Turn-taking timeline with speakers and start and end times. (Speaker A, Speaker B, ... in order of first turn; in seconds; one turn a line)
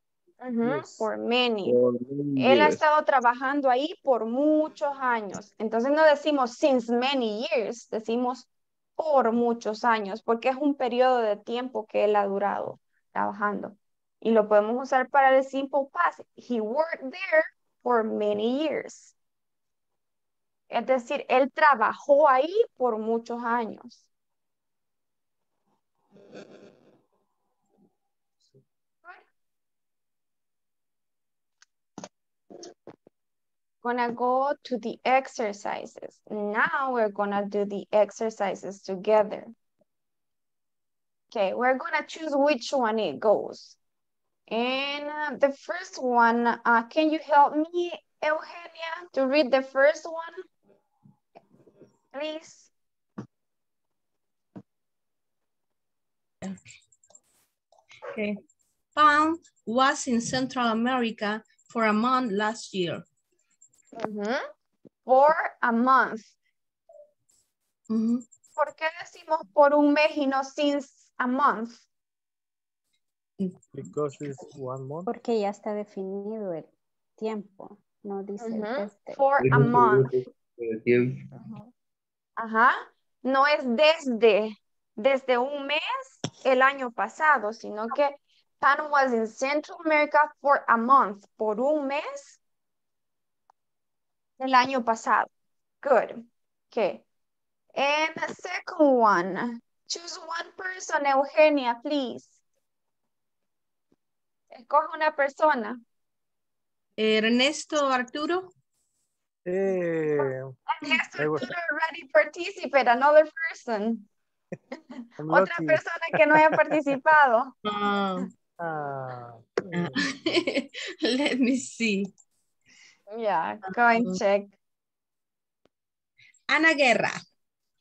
Speaker A: 0.4-1.8
Speaker B: 0.6-1.1
Speaker C: 1.7-2.8
Speaker A: 2.4-19.1
Speaker A: 20.7-24.1
Speaker A: 33.8-39.5
Speaker A: 41.3-43.8
Speaker A: 44.5-50.4
Speaker A: 52.1-52.7
Speaker D: 58.1-58.4
Speaker D: 59.0-63.0
Speaker A: 64.0-64.4
Speaker A: 65.1-66.3
Speaker D: 67.9-68.2
Speaker A: 68.6-71.8
Speaker B: 73.7-75.1
Speaker E: 75.1-79.2
Speaker A: 78.4-80.1
Speaker C: 79.5-80.2
Speaker C: 80.7-81.0
Speaker A: 82.4-92.4
Speaker A: 94.4-95.3
Speaker A: 95.8-97.0
Speaker A: 97.8-102.4
Speaker A: 104.5-105.8
Speaker D: 107.0-108.5
Speaker B: 109.5-110.6
Speaker A: 110.2-114.1
Speaker B: 111.1-111.5
Speaker B: 115.2-116.7
Speaker A: 115.3-117.5
Speaker D: 117.7-118.3
Speaker B: 118.6-120.0
Speaker D: 119.7-122.1
Speaker A: 123.1-124.5
Speaker D: 123.9-124.2
Speaker D: 126.5-127.2